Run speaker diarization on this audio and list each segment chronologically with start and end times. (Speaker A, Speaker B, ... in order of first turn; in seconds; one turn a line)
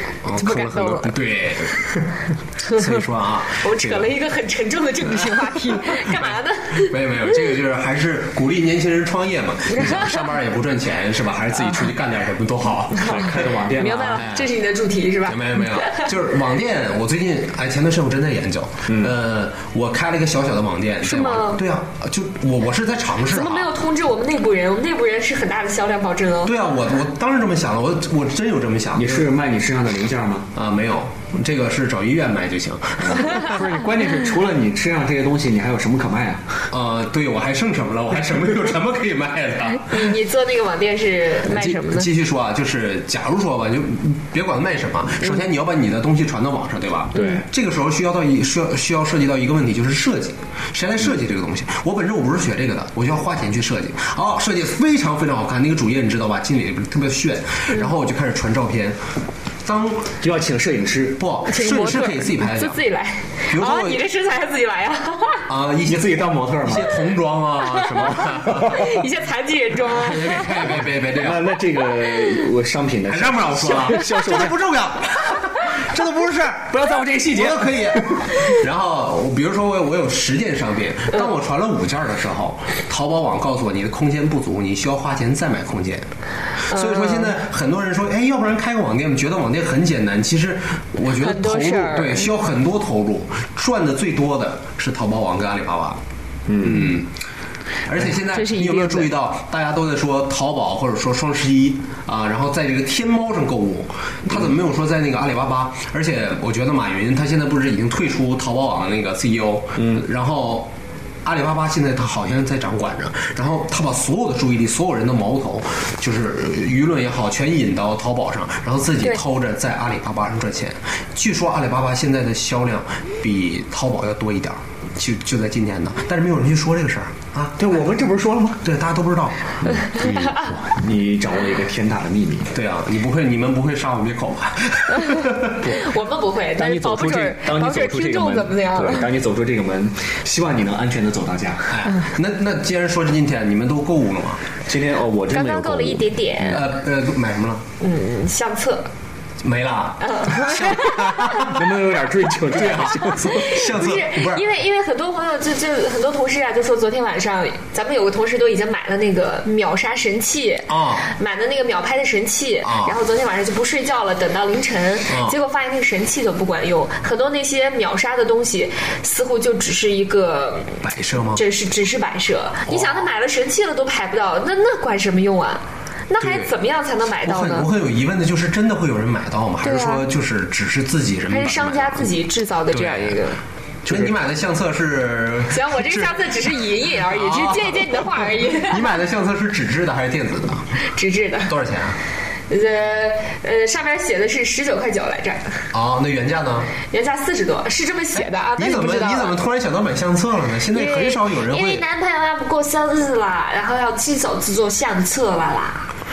Speaker A: 0.2-4.1
Speaker B: 0.4-1.1
Speaker B: 3.6-7.0
Speaker A: 5.9-13.5
Speaker B: 9.7-10.2
Speaker C: 13.0-14.3
Speaker B: 13.7-16.1
Speaker A: 14.2-14.5
Speaker A: 15.2-23.7
Speaker C: 18.9-19.1
Speaker B: 21.0-21.6
Speaker B: 23.3-26.5
Speaker A: 26.4-29.3
Speaker C: 28.9-30.5
Speaker A: 30.5-33.6
Speaker C: 33.0-36.6
Speaker A: 36.7-40.1
Speaker B: 39.9-42.1
Speaker A: 41.5-59.0
Speaker B: 47.1-47.4
Speaker A: 59.6-60.2
Speaker C: 60.2-61.2
Speaker A: 61.2-62.8
Speaker B: 61.5-65.5
Speaker A: 63.5-64.0
Speaker A: 65.5-68.9
Speaker C: 65.8-66.9
Speaker B: 67.7-70.7
Speaker C: 68.2-69.0
Speaker A: 69.9-71.5
Speaker C: 71.1-74.6
Speaker A: 73.1-86.1
Speaker C: 76.7-78.3
Speaker A: 86.6-96.0
Speaker B: 86.7-87.3
Speaker B: 91.1-92.3
Speaker C: 96.5-96.9
Speaker A: 96.6-97.1
Speaker A: 97.8-110.7
Speaker B: 98.3-99.1
Speaker C: 109.8-110.0
Speaker A: 111.2-127.6
Speaker C: 127.6-128.6
Speaker A: 128.6-129.6
Speaker C: 129.6-132.5
Speaker A: 132.5-135.6
Speaker B: 135.6-139.1
Speaker C: 136.6-141.8
Speaker A: 141.7-144.4
Speaker C: 144.7-146.6
Speaker B: 145.3-146.7
Speaker A: 146.5-147.6
Speaker B: 147.8-148.9
Speaker A: 149.4-151.6
Speaker B: 150.0-151.5
Speaker C: 151.3-153.6
Speaker A: 152.6-154.4
Speaker B: 153.1-170.8
Speaker A: 160.7-161.1
Speaker A: 162.6-162.9
Speaker A: 165.1-165.3
Speaker A: 170.8-171.4
Speaker B: 171.3-177.7
Speaker A: 172.7-173.1
Speaker A: 176.2-176.5
Speaker A: 177.2-182.1
Speaker B: 179.6-180.0
Speaker B: 181.3-183.4
Speaker A: 182.7-183.2
Speaker C: 183.8-184.1
Speaker A: 183.8-190.7
Speaker B: 185.5-188.9
Speaker B: 190.8-191.5
Speaker A: 191.5-192.0
Speaker B: 192.5-195.6
Speaker A: 195.7-196.7
Speaker B: 196.9-199.3
Speaker A: 198.6-201.8
Speaker B: 200.7-205.9